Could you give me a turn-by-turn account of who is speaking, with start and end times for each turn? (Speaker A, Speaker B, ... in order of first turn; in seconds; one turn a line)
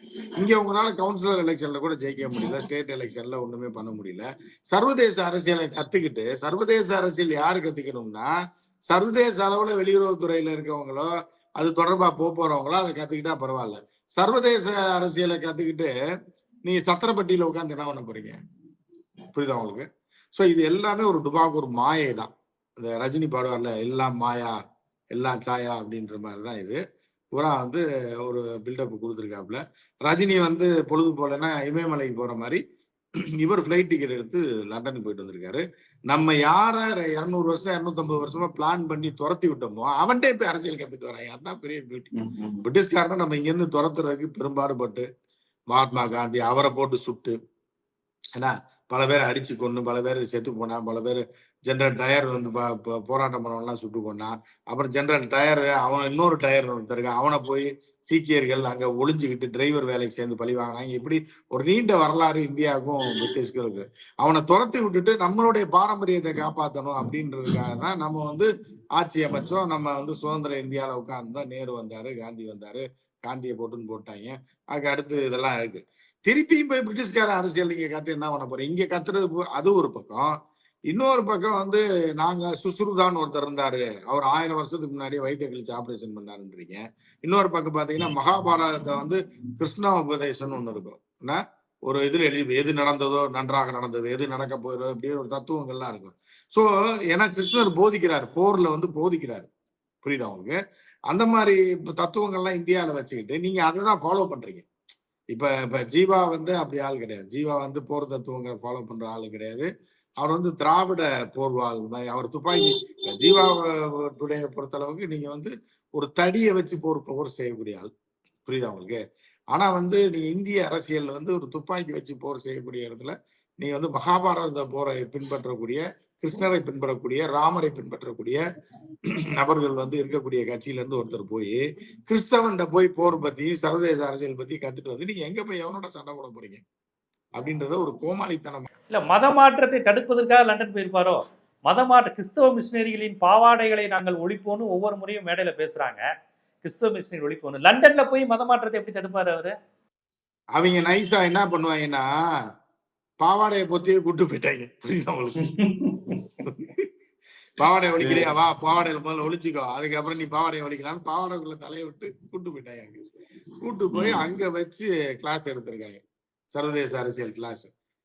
Speaker A: 0.4-8.3
Speaker A: 8.9-15.9
Speaker A: 16.6-18.4
Speaker A: 19.3-24.6
Speaker A: 25.1-26.8
Speaker A: 27.3-32.6
Speaker A: 33.4-42.1
Speaker B: 42.1-42.6
Speaker A: 42.6-45.1
Speaker A: 45.7-47.4
Speaker A: 48.4-80.3
Speaker A: 80.9-99.5
Speaker A: 100.0-100.5
Speaker A: 101.1-104.7
Speaker A: 105.3-109.7
Speaker A: 110.2-117.9
Speaker A: 118.5-119.0
Speaker A: 119.5-128.4
Speaker A: 129.3-136.6
Speaker A: 137.4-138.7
Speaker B: 138.9-146.0
Speaker B: 146.6-149.5
Speaker A: 150.6-152.1
Speaker A: 153.2-155.4
Speaker B: 155.4-156.2
Speaker A: 156.4-156.9
Speaker A: 157.6-163.0
Speaker B: 158.0-158.3
Speaker A: 163.6-166.0
Speaker B: 163.9-164.2
Speaker A: 166.5-167.7